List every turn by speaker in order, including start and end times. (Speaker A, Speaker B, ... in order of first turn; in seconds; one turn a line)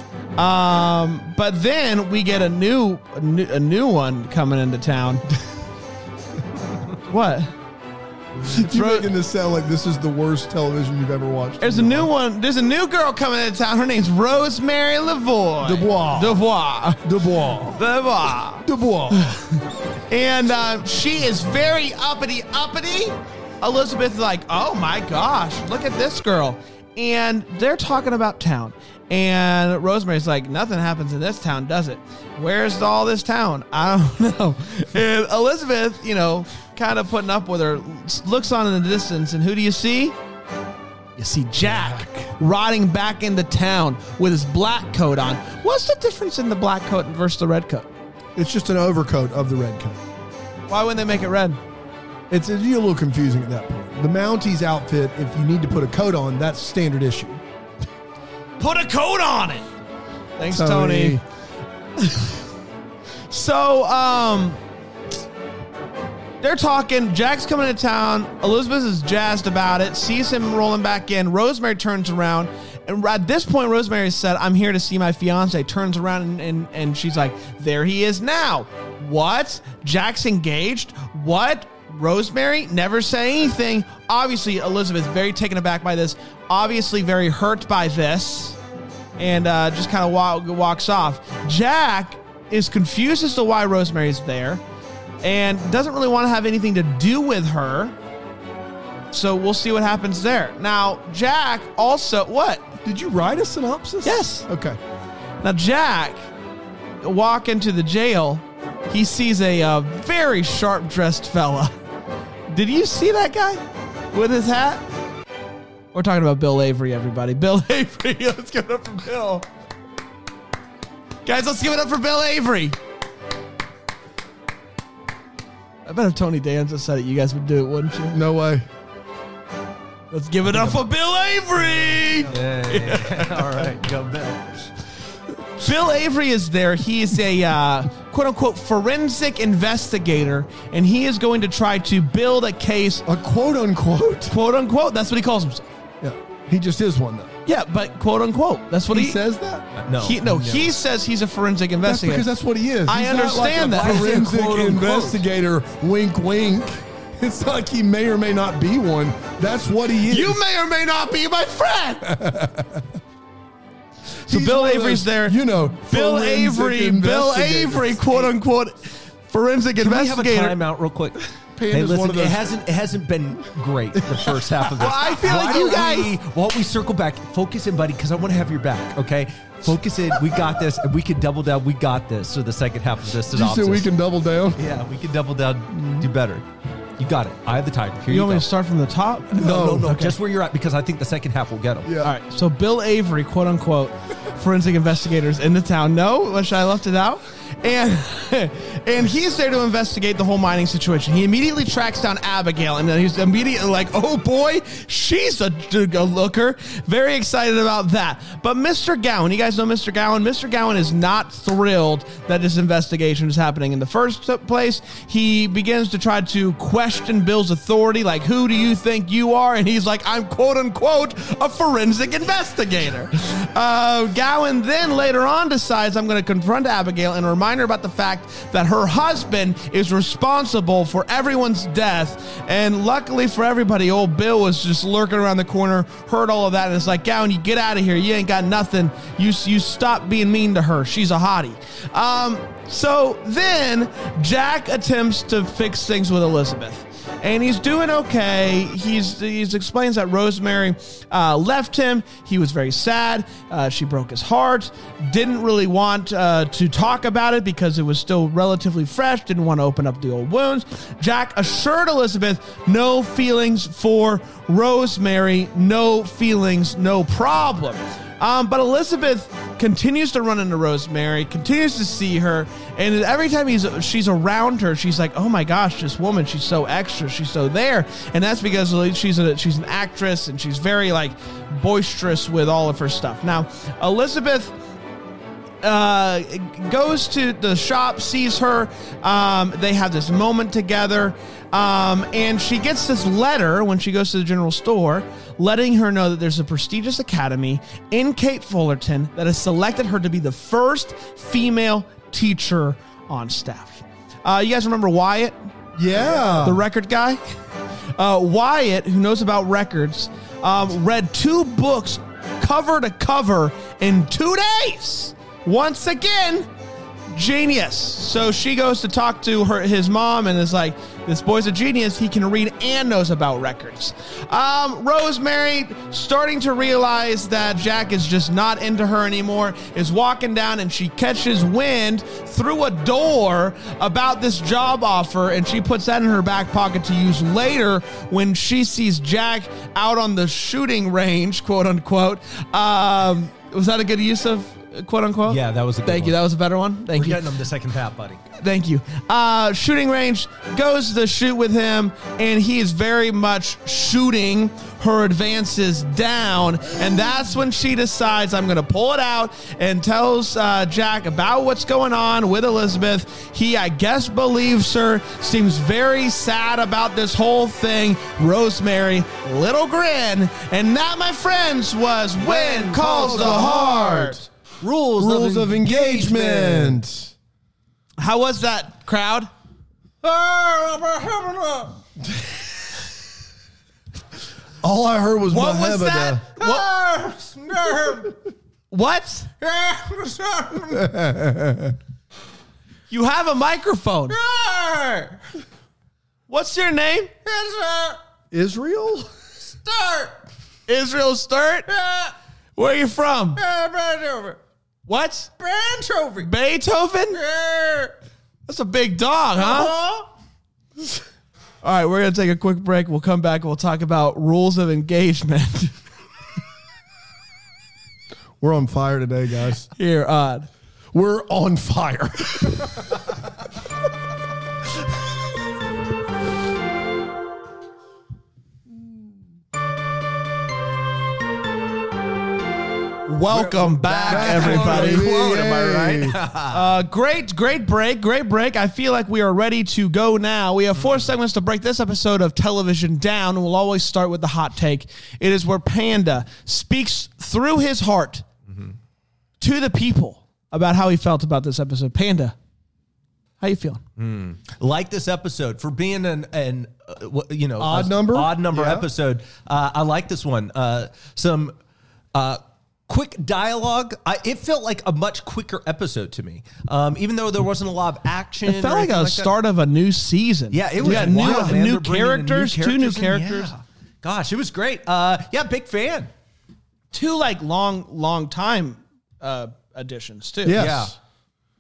Speaker A: 0.4-5.2
Speaker A: 7.0-7.5
Speaker B: 8.5-12.1
Speaker A: 8.5-9.1
Speaker A: 11.6-17.1
Speaker B: 15.6-16.4
Speaker B: 17.0-17.8
Speaker A: 17.6-40.1
Speaker B: 18.6-19.4
Speaker A: 41.2-47.9
Speaker B: 41.6-42.3
Speaker B: 48.4-50.0
Speaker A: 50.7-51.6
Speaker B: 52.3-57.4
Speaker A: 58.6-59.6
Speaker A: 60.4-61.2
Speaker B: 60.5-61.2
Speaker A: 62.0-62.4
Speaker A: 63.3-64.6
Speaker A: 66.4-88.6
Speaker A: 89.2-94.6
Speaker A: 95.2-97.9
Speaker A: 99.1-102.7
Speaker B: 102.8-104.8
Speaker A: 104.0-104.5
Speaker A: 105.4-106.2
Speaker A: 107.0-111.7
Speaker A: 112.5-114.8
Speaker A: 115.9-119.5
Speaker A: 121.2-122.8
Speaker A: 125.8-128.2
Speaker B: 128.1-128.7
Speaker A: 130.1-133.6
Speaker C: 130.5-130.8
Speaker C: 132.3-134.6
Speaker A: 135.6-143.0
Speaker B: 143.0-144.3
Speaker A: 144.3-145.7
Speaker B: 146.0-147.3
Speaker A: 147.4-149.2
Speaker B: 148.9-149.7
Speaker C: 149.8-150.7
Speaker A: 150.0-152.3
Speaker B: 151.8-160.4
Speaker A: 152.8-154.3
Speaker C: 153.6-155.2
Speaker A: 160.1-162.1
Speaker B: 162.0-163.0
Speaker B: 164.2-168.0
Speaker A: 164.3-170.6
Speaker C: 169.8-171.2
Speaker B: 171.6-172.4
Speaker C: 171.7-183.9
Speaker B: 173.9-174.7
Speaker A: 174.8-176.1
Speaker B: 183.3-184.6
Speaker C: 184.6-186.4
Speaker B: 185.7-186.1
Speaker C: 187.0-188.5
Speaker A: 188.1-190.1
Speaker B: 189.3-190.1
Speaker C: 189.4-191.9
Speaker B: 191.8-192.1
Speaker A: 192.0-284.5
Speaker A: 285.6-305.4
Speaker B: 305.8-306.6
Speaker A: 306.0-307.2
Speaker A: 307.9-316.5
Speaker A: 317.1-347.2
Speaker C: 345.2-346.1
Speaker C: 346.9-348.2
Speaker A: 348.4-374.2
Speaker C: 372.2-373.6
Speaker B: 372.9-374.3
Speaker C: 374.6-376.8
Speaker B: 375.0-377.1
Speaker A: 378.0-379.3
Speaker C: 380.0-381.7
Speaker B: 384.6-386.2
Speaker A: 385.3-386.7
Speaker C: 386.4-388.2
Speaker A: 388.7-389.3
Speaker C: 389.4-390.9
Speaker B: 390.7-391.8
Speaker A: 392.9-394.1
Speaker C: 394.1-395.2
Speaker A: 396.3-397.1
Speaker C: 397.2-398.0
Speaker B: 398.3-399.1
Speaker C: 399.5-400.2
Speaker A: 400.7-401.7
Speaker C: 401.7-402.1
Speaker A: 402.6-403.4
Speaker C: 403.4-404.4
Speaker A: 404.9-405.3
Speaker C: 405.4-406.3
Speaker A: 406.2-407.2
Speaker C: 407.1-407.9
Speaker A: 408.5-409.7
Speaker C: 409.4-410.1
Speaker A: 411.6-415.7
Speaker B: 418.4-419.7
Speaker A: 419.8-420.5
Speaker B: 420.9-423.0
Speaker A: 433.1-435.1
Speaker C: 433.3-436.6
Speaker B: 434.1-436.2
Speaker A: 436.5-448.2
Speaker A: 449.4-452.3
Speaker A: 453.4-453.8
Speaker C: 454.0-461.5
Speaker B: 457.6-458.9
Speaker C: 462.1-469.3
Speaker A: 468.4-473.5
Speaker C: 470.5-476.1
Speaker B: 470.8-471.6
Speaker A: 476.9-480.7
Speaker B: 480.4-480.9
Speaker C: 480.5-480.9